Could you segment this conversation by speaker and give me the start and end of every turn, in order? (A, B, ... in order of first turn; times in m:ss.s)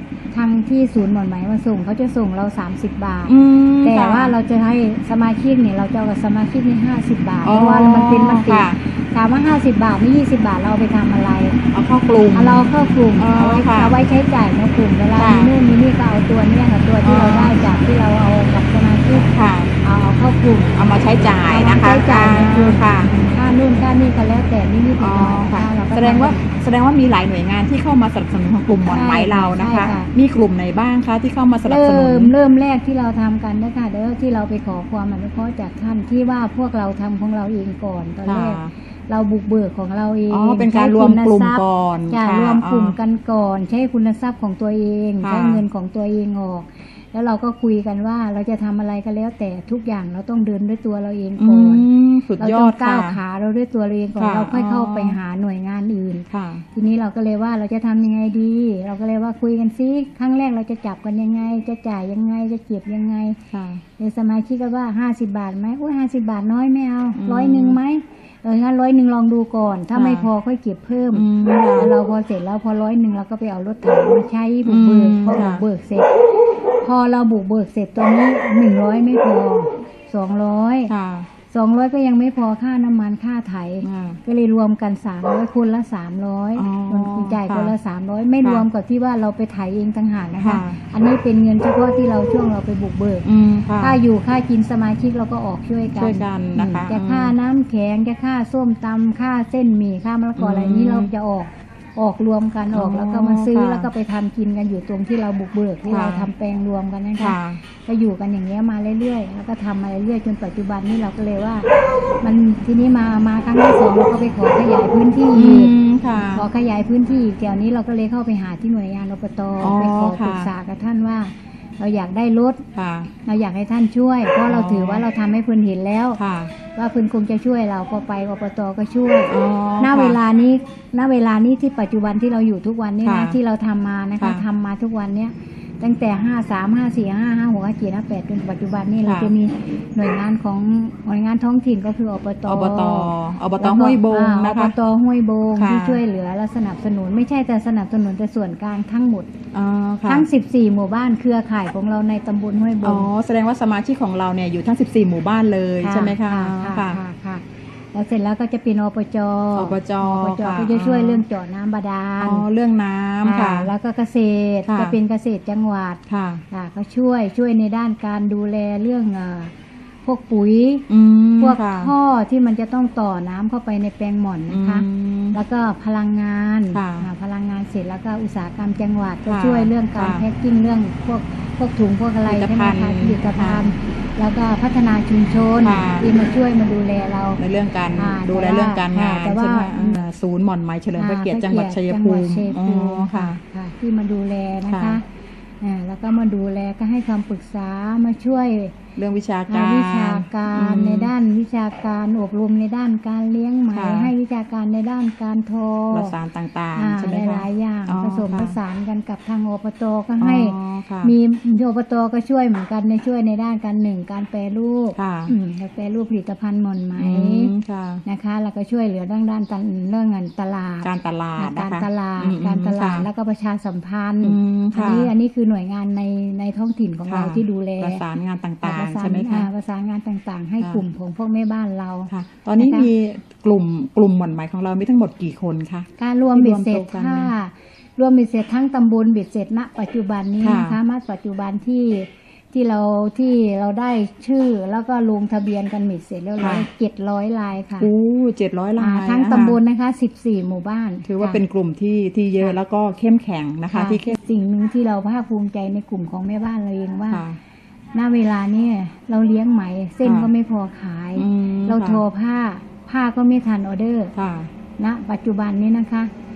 0:00.3-0:11.6 A
0:03.3-0:04.4 B
0:07.4-0:08.8 B
0:11.7-0:13.9 B
0:12.3-0:19.3 A
0:15.1-0:15.5 B
0:17.0-0:17.6 B
0:19.3-0:19.7 B
0:19.8-0:20.7 A
0:20.7-0:23.2 B
0:21.4-0:26.6 A
0:25.0-0:32.3 B
0:28.8-0:30.1 A
0:31.7-0:51.9 A
0:38.2-0:38.7 B
0:40.3-0:43.0 B
0:45.2-0:45.6 B
0:51.4-0:53.2 B
0:52.4-1:03.4 A
0:54.2-0:55.2 B
0:56.3-0:56.7 B
1:03.5-1:03.8 B
1:04.0-1:16.1 A
1:07.2-1:07.8 B
1:09.9-1:10.3 B
1:11.1-1:11.9 B
1:14.6-1:15.6 B
1:16.8-1:20.9 A
1:20.9-1:21.3 B
1:21.5-1:33.3 A
1:23.8-1:24.2 B
1:26.6-1:27.7 B
1:30.4-1:30.8 B
1:33.2-1:34.0 B
1:33.8-1:51.7 A
1:36.0-1:37.4 B
1:40.4-1:41.1 B
1:42.7-1:43.9 B
1:45.9-1:46.3 B
1:47.2-1:47.6 B
1:52.2-1:55.8 A
1:55.3-1:56.5 B
1:56.3-2:02.6 A
1:59.6-2:00.5 B
2:02.8-2:03.1 B
2:03.2-2:29.3 A
2:04.5-2:05.1 B
2:06.2-2:06.5 B
2:09.3-2:10.2 B
2:13.0-2:13.4 B
2:19.0-2:19.3 B
2:22.5-2:24.8 B
2:25.6-2:26.0 B
2:29.5-2:30.3 B
2:30.1-2:33.1 A
2:32.8-2:37.0 B
2:35.8-2:42.4 A
2:39.5-2:41.2 B
2:42.2-2:43.7 B
2:43.2-2:49.5 A
2:44.7-2:45.0 B
2:46.1-2:46.4 B
2:50.0-2:50.9 A
2:50.9-2:51.9 B
2:51.4-3:07.4 A
2:54.5-2:55.4 B
2:56.7-2:57.1 B
2:59.3-3:00.2 B
3:02.3-3:03.6 B
3:05.6-3:06.1 B
3:07.4-3:13.4 B
3:08.0-3:10.0 A
3:11.0-3:15.0 A
3:14.6-3:15.0 B
3:15.6-3:18.8 A
3:19.0-3:21.1 B
3:19.5-3:26.1 A
3:23.7-3:24.1 B
3:25.9-3:28.6 B
3:26.8-3:37.5 A
3:30.2-3:31.1 B
3:35.0-3:35.3 B
3:37.0-3:38.0 B
3:38.1-3:48.0 A
3:40.8-3:43.1 B
3:44.2-3:45.1 B
3:47.1-3:49.5 B
3:48.6-3:52.9 A
3:52.1-3:57.3 B
3:56.0-4:07.9 A
4:00.4-4:00.8 B
4:06.4-4:06.7 B
4:07.8-4:09.6 B
4:08.8-4:11.4 A
4:11.0-4:14.2 B
4:13.7-4:17.2 A
4:17.1-4:17.4 B
4:17.9-4:24.1 A
4:20.0-4:20.3 B
4:21.2-4:22.0 B
4:24.2-4:24.5 B
4:24.8-4:26.1 A